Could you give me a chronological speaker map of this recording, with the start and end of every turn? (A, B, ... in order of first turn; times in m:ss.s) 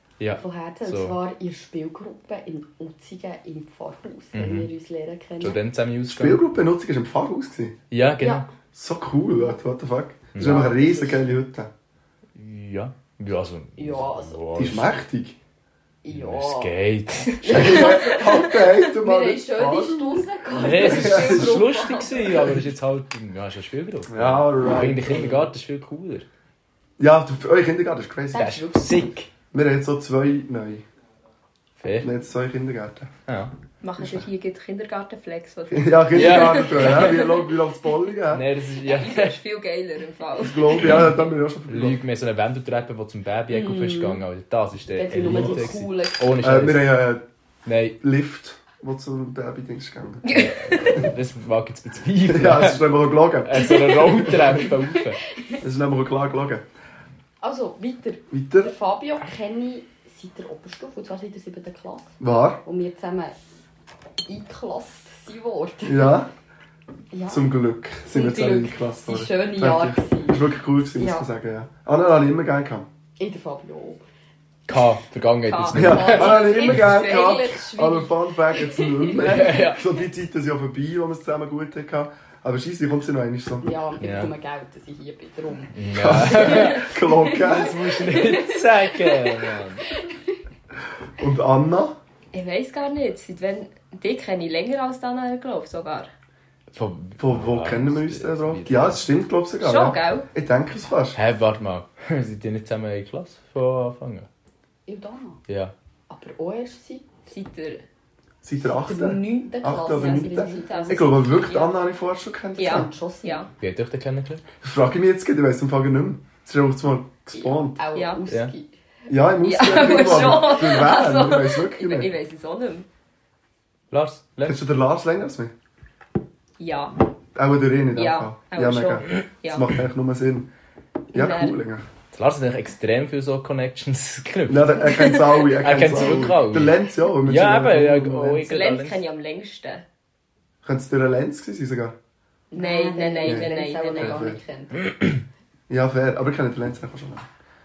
0:00.2-0:01.2 A
0:00.4-0:05.6 B
0:04.3-0:04.7 A
0:05.4-0:06.4 A
0:06.1-0:07.8 C
0:07.9-0:08.5 A
0:08.7-0:11.7 C
0:10.4-0:10.7 A
0:10.4-0:11.2 B
0:12.4-0:14.9 A
0:13.8-0:14.4 B
0:14.6-0:15.4 C
0:16.0-0:16.7 B
0:16.1-0:17.9 A
0:17.4-0:20.3 C
0:17.5-0:22.6 B
0:20.6-0:26.3 A
0:20.8-0:21.6 C
0:24.1-0:25.5 C
0:27.0-0:28.6 C
0:28.3-0:29.1 B
0:28.4-0:29.3 A
0:29.5-0:30.8 C
0:31.8-0:32.1 A
0:32.0-0:33.1 C
0:33.3-0:33.5 A
0:33.8-0:37.4 D
0:34.0-0:34.3 C
0:35.7-0:38.5 C
0:36.1-0:37.1 A
0:38.3-0:39.4 A
0:38.8-0:41.1 D
0:40.4-0:42.0 C
0:41.7-0:46.9 A
0:43.5-0:44.2 B
0:44.9-0:46.2 B
0:45.2-0:45.6 C
0:46.4-0:47.2 C
0:47.7-0:48.0 A
0:48.0-0:50.4 C
0:50.3-0:51.1 D
0:50.3-0:52.8 A
0:52.3-0:54.7 C
0:53.4-0:55.2 A
0:55.6-0:56.7 C
0:57.4-1:03.4 B
0:58.3-0:58.7 C
1:02.2-1:02.6 C
1:04.3-1:06.2 B
1:05.9-1:06.3 C
1:07.1-1:07.5 B
1:07.3-1:12.9 C
1:08.1-1:10.4 B
1:11.0-1:11.3 B
1:13.2-1:14.0 B
1:14.7-1:16.3 A
1:15.5-1:17.6 D
1:15.7-1:23.7 C
1:15.8-1:19.5 B
1:19.2-1:19.8 A
1:23.6-1:29.6 B
1:24.0-1:24.3 A
1:25.7-1:29.8 A
1:25.9-1:27.8 C
1:31.2-1:32.0 C
1:32.3-1:36.1 D
1:36.7-1:39.1 A
1:37.2-1:41.2 C
1:39.6-1:40.3 D
1:41.2-1:44.3 A
1:44.9-1:45.4 B
1:45.5-1:45.7 A
1:46.1-1:47.1 B
1:47.3-1:47.8 D
1:48.4-1:52.9 C
1:48.9-1:51.0 B
1:50.0-1:51.7 D
1:52.6-1:53.5 D
1:52.6-1:53.5 B
1:53.6-1:54.4 A
1:54.6-1:57.8 C
1:57.4-1:58.7 B
1:57.9-1:58.2 D
1:59.1-2:02.1 C
1:59.4-2:02.9 D
2:03.9-2:04.6 A
2:04.4-2:05.5 C
2:06.6-2:07.0 D
2:07.4-2:10.5 C
2:08.0-2:09.6 D
2:11.1-2:11.6 D
2:11.1-2:11.9 C
2:12.1-2:19.0 A
2:14.5-2:18.5 C
2:18.4-2:19.8 D
2:20.6-2:22.0 C
2:22.5-2:24.8 B
2:22.5-2:24.3 D
2:23.2-2:24.4 C
2:24.8-2:25.2 A
2:25.7-2:27.3 C